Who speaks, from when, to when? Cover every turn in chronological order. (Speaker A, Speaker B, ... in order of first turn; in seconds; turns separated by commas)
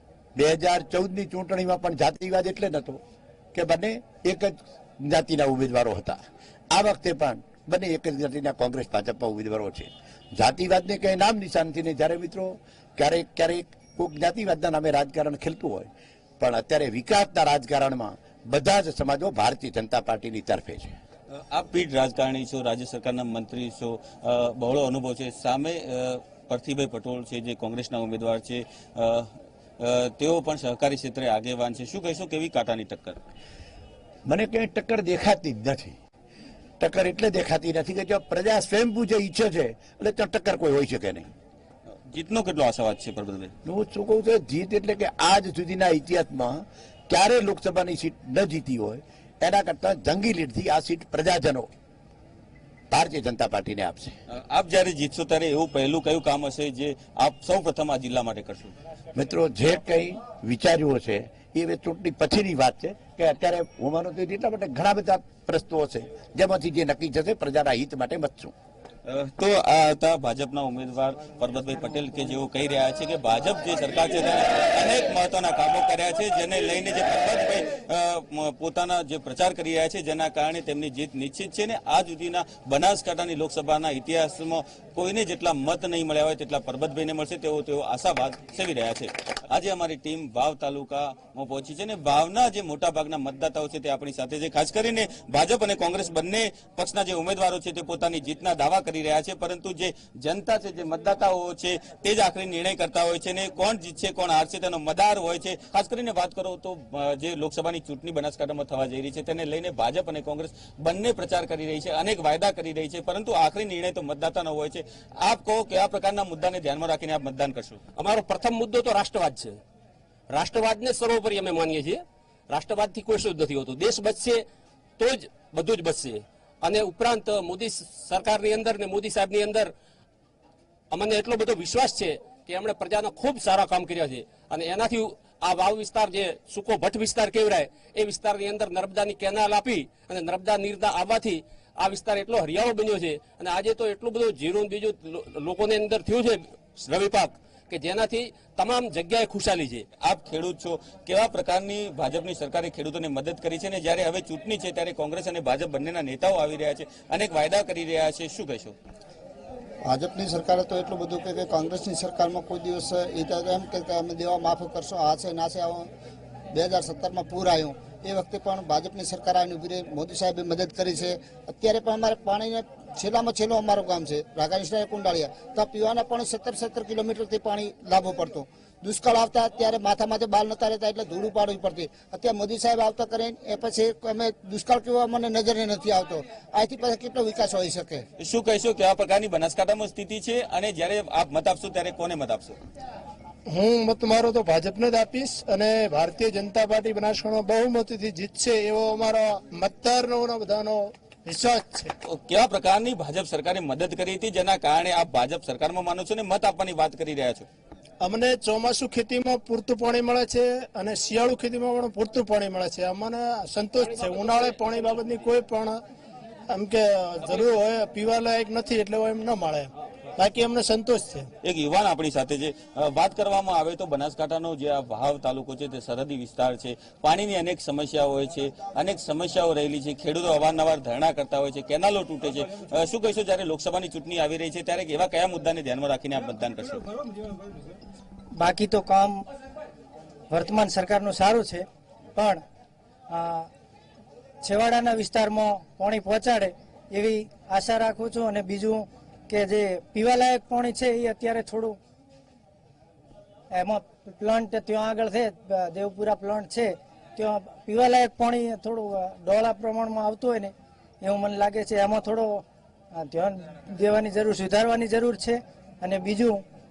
Speaker A: 0.3-3.0, Speaker A: 3.5-6.2, Speaker A: 6.7-20.9, Speaker B: 21.3-33.2, Speaker A: 34.2-36.0, Speaker A: 36.8-41.3, Speaker B: 42.1-43.5, Speaker A: 43.6-51.7, Speaker A: 52.9-54.1, Speaker B: 54.3-58.7, Speaker A: 59.1-68.5, Speaker B: 69.0-117.8, Speaker C: 118.0-119.6, Speaker C: 120.3-124.4, Speaker C: 125.0-129.7, Speaker C: 130.9-149.8, Speaker B: 150.0-158.8, Speaker D: 159.8-165.9, Speaker D: 166.5-188.0, Speaker B: 188.2-192.6, Speaker E: 193.5-201.9, Speaker B: 202.0-207.5, Speaker E: 208.0-215.8, Speaker E: 216.5-221.3, Speaker B: 221.4-236.8, Speaker F: 238.3-239.2, Speaker F: 240.3-242.4, Speaker F: 243.1-243.5, Speaker F: 244.4-251.8, Speaker F: 253.5-262.4, Speaker F: 262.9-266.4